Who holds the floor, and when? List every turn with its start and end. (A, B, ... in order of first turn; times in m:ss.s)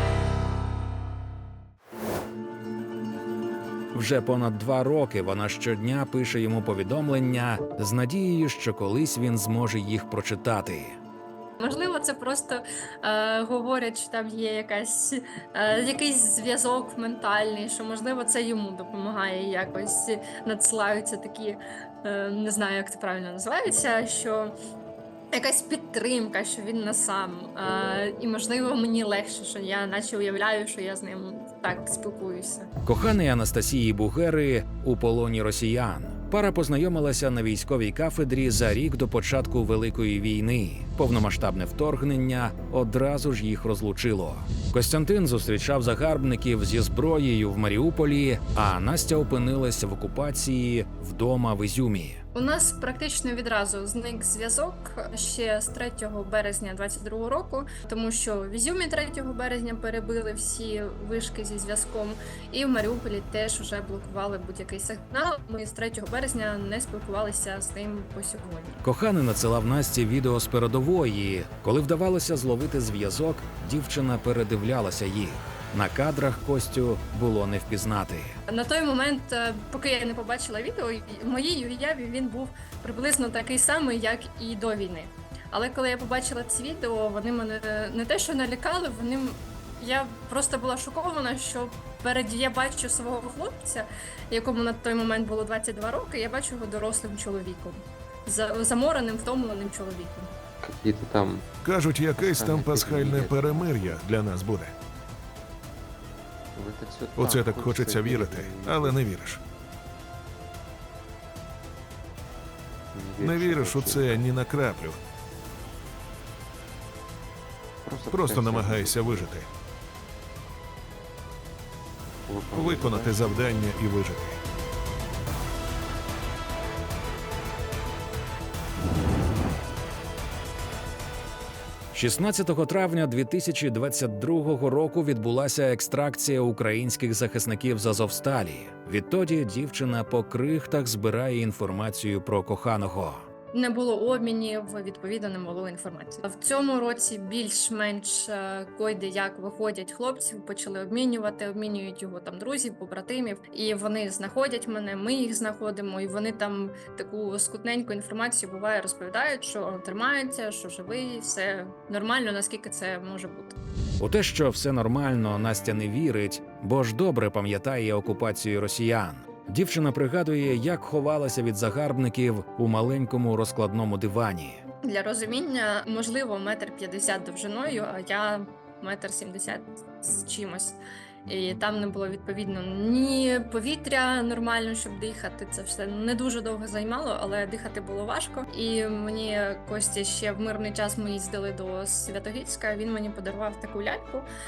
0:03.9-0:11.0 A
0:11.6-0:24.5 B
0:25.3-0:32.7 B
0:32.8-0:52.2 A
0:52.3-1:08.8 B
1:08.8-1:18.4 A
1:18.5-1:40.3 B
1:40.6-1:41.4 C
1:41.6-1:44.7 D
1:42.2-1:44.0 C
1:46.6-1:49.0 C
1:47.2-1:49.4 D
1:52.9-1:54.3 C
1:53.2-1:55.0 D
1:57.8-1:59.3 C
1:58.1-1:59.5 D
2:02.3-2:03.8 C
2:02.5-2:04.4 D
2:11.9-2:23.2 A
2:23.5-2:43.6 B
2:44.0-2:54.6 A
2:54.9-3:14.3 B